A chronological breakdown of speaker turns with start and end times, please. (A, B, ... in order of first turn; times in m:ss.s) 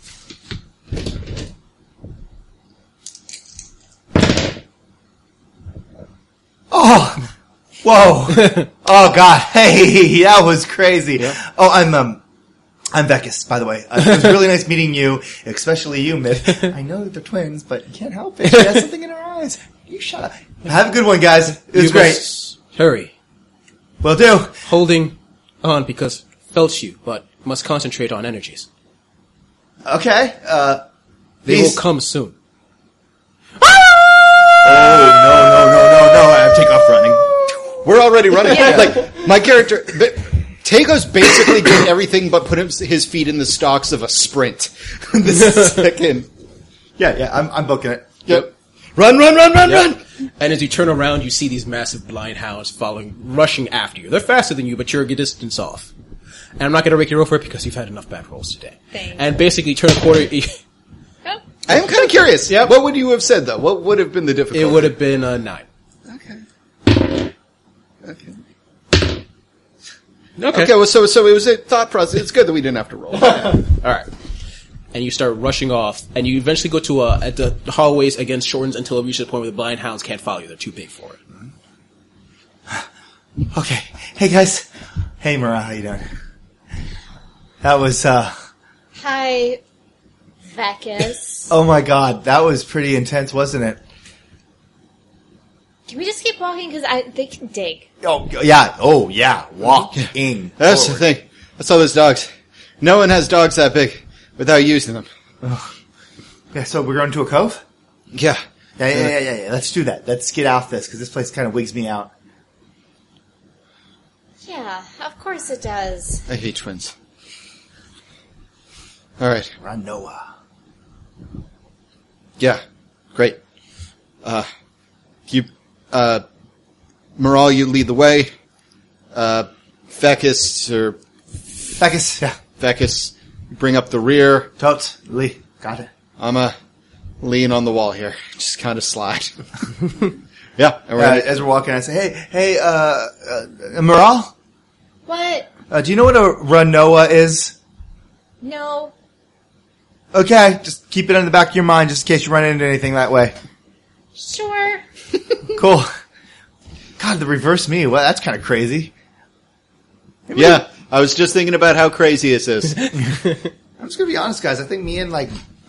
0:06.7-0:07.3 A
0:07.8-0:12.2 A
0:12.9-0:22.3 A
0:21.7-0:23.1 B
0:24.0-0:24.6 A
0:24.6-0:28.7 B
0:29.8-0:30.8 A
0:31.4-0:32.4 B
0:31.5-0:31.8 A
0:34.6-0:37.6 A
0:37.8-0:46.3 C
0:38.7-0:39.0 A
0:47.0-0:48.2 A
0:48.3-0:50.0 C
0:49.6-0:55.9 B
0:56.6-1:00.6 B
0:58.9-0:59.2 D
1:01.7-1:04.9 C
1:02.5-1:02.8 B
1:04.5-1:05.6 B
1:06.1-1:06.4 C
1:08.0-1:08.4 C
1:10.4-1:10.7 B
1:10.5-1:13.6 C
1:13.2-1:14.1 B
1:14.9-1:21.2 B
1:23.5-1:24.7 A
1:25.2-1:26.0 A
1:27.6-1:28.3 A
1:29.0-1:29.6 D
1:30.5-1:31.5 D
1:31.5-1:33.8 A
1:35.9-1:37.9 D
1:38.0-1:41.0 A
1:40.0-1:45.1 C
1:45.4-1:45.7 A
1:46.5-1:47.6 A
1:48.1-1:48.4 C
1:48.8-1:52.1 A
1:54.4-1:56.2 D
1:56.3-1:56.9 C
1:59.2-1:59.5 C
1:59.6-2:00.2 A
2:03.1-2:03.4 C
2:04.2-2:04.5 C
2:05.3-2:06.2 C
2:07.2-2:08.3 C
2:09.1-2:11.7 C
2:11.8-2:12.4 A
2:12.6-2:14.5 C
2:14.6-2:15.9 A
2:16.2-2:16.6 C
2:17.2-2:19.4 C
2:20.6-2:21.3 C
2:21.0-2:24.3 A
2:25.1-2:25.5 D
2:25.7-2:27.6 A
2:28.4-2:28.9 D
2:30.1-2:33.3 A
2:34.2-2:34.8 D
2:35.5-2:35.9 A
2:37.0-2:38.9 A
2:40.3-2:40.6 A
2:40.3-2:43.0 C
2:43.8-2:45.3 A